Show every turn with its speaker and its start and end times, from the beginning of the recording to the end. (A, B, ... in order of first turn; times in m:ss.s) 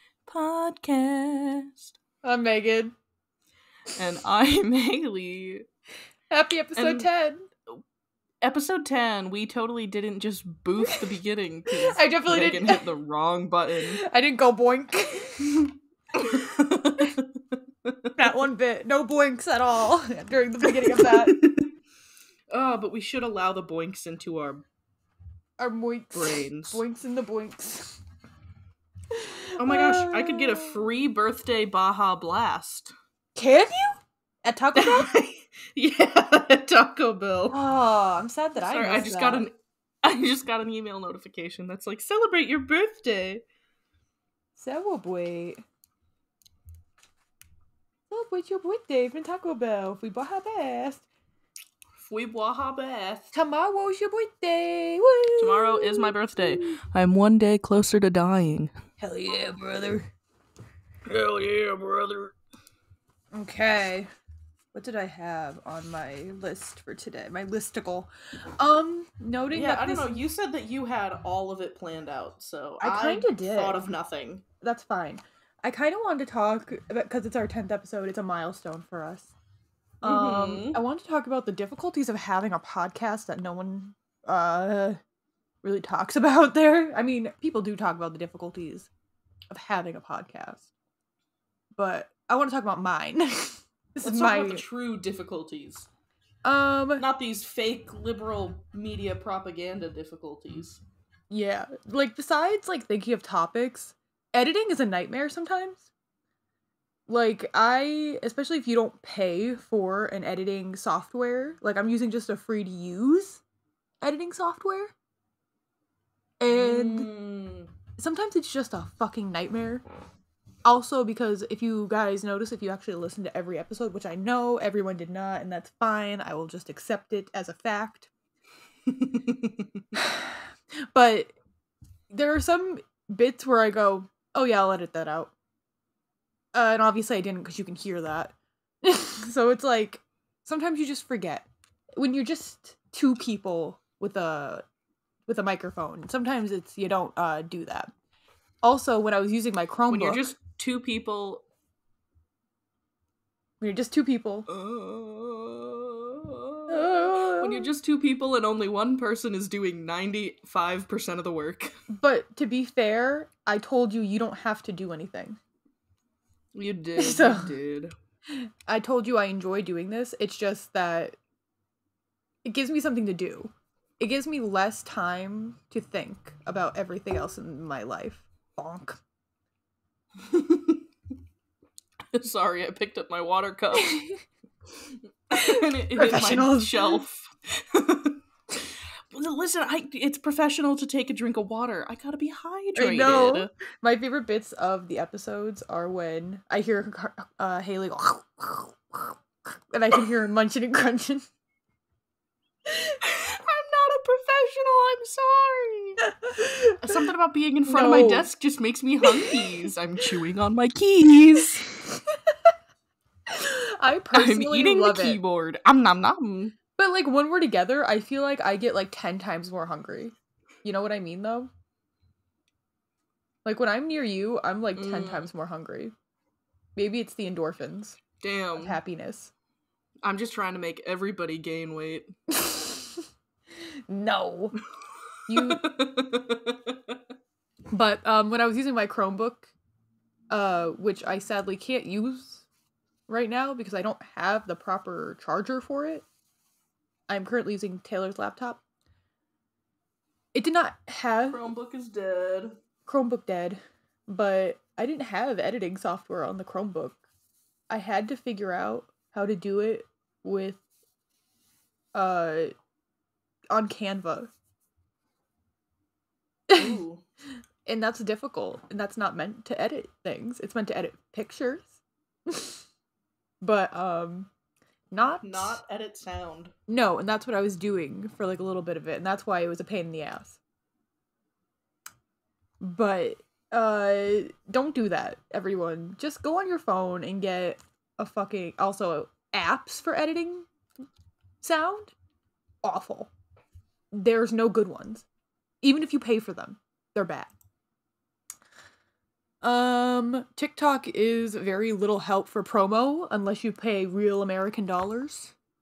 0:00.2-0:02.0 A
0:02.2-0:02.9 B
0:04.0-0:05.7 A
0:06.3-0:07.5 B
0:06.8-0:07.1 A
0:08.4-0:14.0 A
0:11.7-0:12.8 B
0:14.0-0:15.7 B
0:16.1-0:18.1 A
0:18.2-0:21.4 B
0:20.7-0:21.7 A
0:22.5-0:24.6 A
0:25.6-0:28.0 B
0:26.1-0:26.8 A
0:29.1-0:30.8 B
0:29.6-0:33.0 A
0:33.4-0:35.1 B
0:34.7-0:37.6 A
0:37.5-0:39.5 B
0:38.6-0:43.4 A
0:44.6-0:45.6 B
0:48.1-0:51.0 B
0:52.0-0:53.3 A
0:53.3-0:56.8 B
0:55.4-0:58.7 A
0:59.0-1:00.1 B
1:01.0-1:02.3 A
1:03.3-1:04.1 B
1:04.7-1:10.2 B
1:09.5-1:14.4 A
1:12.8-1:13.8 B
1:14.6-1:19.3 B
1:20.0-1:25.0 B
1:20.0-1:20.8 A
1:25.6-1:28.9 B
1:29.5-1:30.7 B
1:31.8-1:34.6 B
1:34.0-1:35.9 A
1:36.4-1:37.0 B
1:37.0-1:40.8 A
1:41.3-1:45.9 B
1:47.1-1:53.4 B
1:54.0-1:54.9 B
1:56.4-1:57.1 B
1:56.5-1:57.7 A
1:58.0-1:59.8 B
2:00.6-2:08.1 B
2:08.9-2:09.8 A
2:09.9-2:11.3 B
2:12.1-2:15.3 B
2:16.5-2:24.6 B
2:25.3-2:27.9 B
2:28.6-2:30.2 B
2:29.9-2:31.4 A
2:33.6-2:34.5 B
2:34.5-2:41.7 A
2:36.7-2:37.7 B
2:41.9-2:45.4 B
2:46.5-2:47.9 A
2:47.0-2:47.5 B
2:48.3-2:51.2 B
2:52.4-2:59.0 B
3:00.2-3:00.8 A
3:02.1-3:04.0 A
3:03.8-3:04.2 B
3:05.3-3:13.5 A
3:05.3-3:07.0 B
3:12.8-3:21.3 B
3:23.0-3:26.0 A
3:26.0-3:27.0 B
3:26.8-3:31.7 A
3:27.7-3:28.3 B
3:29.0-3:29.7 B
3:33.3-3:35.2 B
3:34.1-3:36.6 A
3:36.8-3:41.5 B
3:43.4-3:45.9 B
3:44.8-3:45.3 A
3:46.8-3:48.0 B
3:48.2-3:48.8 A
3:48.6-3:49.3 B
3:50.0-3:52.1 A
3:52.3-3:53.0 B
3:53.9-3:54.6 B
3:55.3-3:55.6 B
3:55.3-3:57.0 A
3:57.7-3:59.5 B
4:00.3-4:02.4 B
4:03.1-4:06.0 B
4:07.1-4:08.6 B
4:10.3-4:11.4 B
4:11.3-4:12.6 A
4:12.9-4:17.0 B
4:17.7-4:20.6 B
4:21.9-4:22.5 B
4:23.5-4:24.3 B
4:26.5-4:26.8 B
4:26.6-4:27.0 A
4:27.6-4:31.8 B
4:32.3-4:32.6 B
4:33.4-4:34.3 B
4:34.9-4:35.6 B
4:35.2-4:36.5 A
4:36.7-4:40.4 B
4:42.6-4:50.5 B
4:51.4-4:51.9 B
4:52.6-4:53.1 B
4:53.9-4:55.1 B
4:55.6-4:57.3 B
4:59.4-5:05.3 B